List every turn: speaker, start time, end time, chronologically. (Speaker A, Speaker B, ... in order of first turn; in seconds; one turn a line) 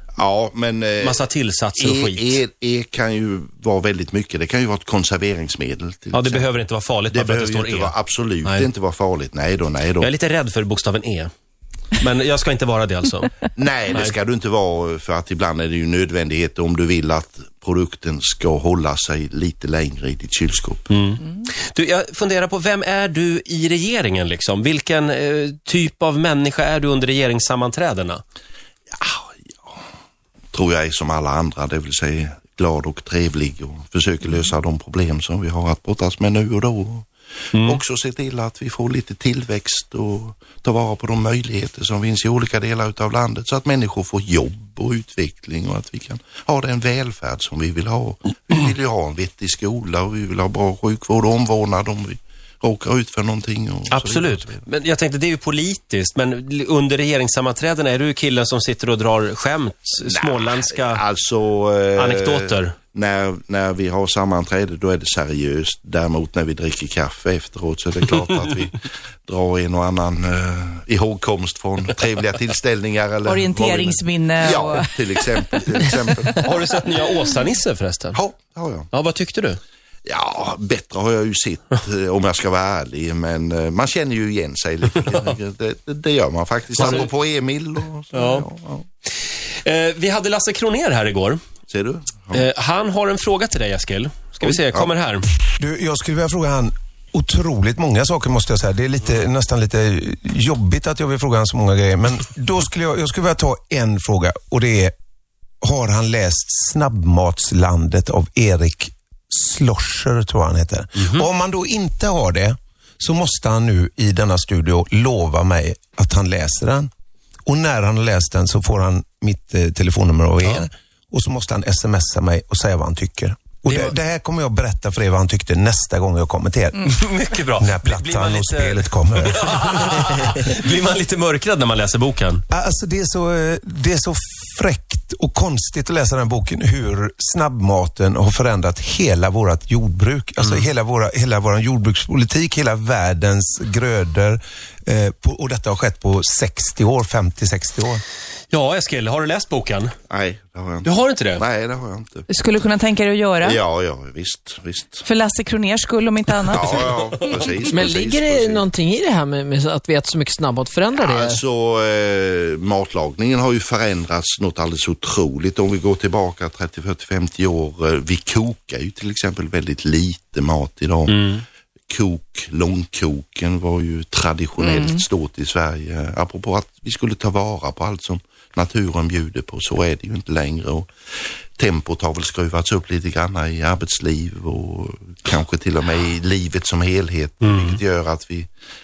Speaker A: 0.2-1.2
Speaker B: 1.0-2.4
Speaker A: 1.8-6.5
Speaker B: 6.1-8.7
Speaker A: 7.1-10.1
Speaker B: 10.0-11.3
Speaker B: 12.0-13.3
Speaker A: 13.5-20.9
Speaker B: 13.9-14.1
Speaker B: 20.9-28.2
Speaker A: 28.9-29.8
Speaker A: 30.5-54.6
Speaker B: 37.5-37.8
Speaker B: 53.9-61.0
Speaker A: 60.0-76.7
Speaker B: 61.9-62.8
Speaker C: 73.2-76.4
Speaker B: 76.4-78.2
Speaker A: 78.1-78.9
Speaker B: 78.9-79.6
Speaker A: 80.0-88.8
Speaker B: 86.7-87.1
Speaker B: 88.1-88.5
Speaker B: 89.6-91.4
Speaker A: 91.7-92.5
Speaker B: 92.3-95.2
Speaker A: 94.4-94.9
Speaker D: 95.6-104.9
Speaker D: 105.6-116.9
Speaker B: 111.0-111.2
Speaker D: 117.5-126.9
Speaker B: 123.7-123.9
Speaker B: 126.8-132.4
Speaker D: 127.6-129.7
Speaker D: 132.5-148.0
Speaker B: 140.4-140.7
Speaker B: 148.5-149.9
Speaker A: 150.1-152.3
Speaker B: 150.8-151.4
Speaker C: 152.3-153.6
Speaker A: 153.4-155.0
Speaker C: 155.0-157.0
Speaker A: 156.5-158.7
Speaker E: 157.7-161.4
Speaker A: 160.9-171.3
Speaker B: 171.1-171.4
Speaker A: 171.9-180.9
Speaker C: 174.6-175.0
Speaker A: 181.6-188.5
Speaker B: 187.4-187.8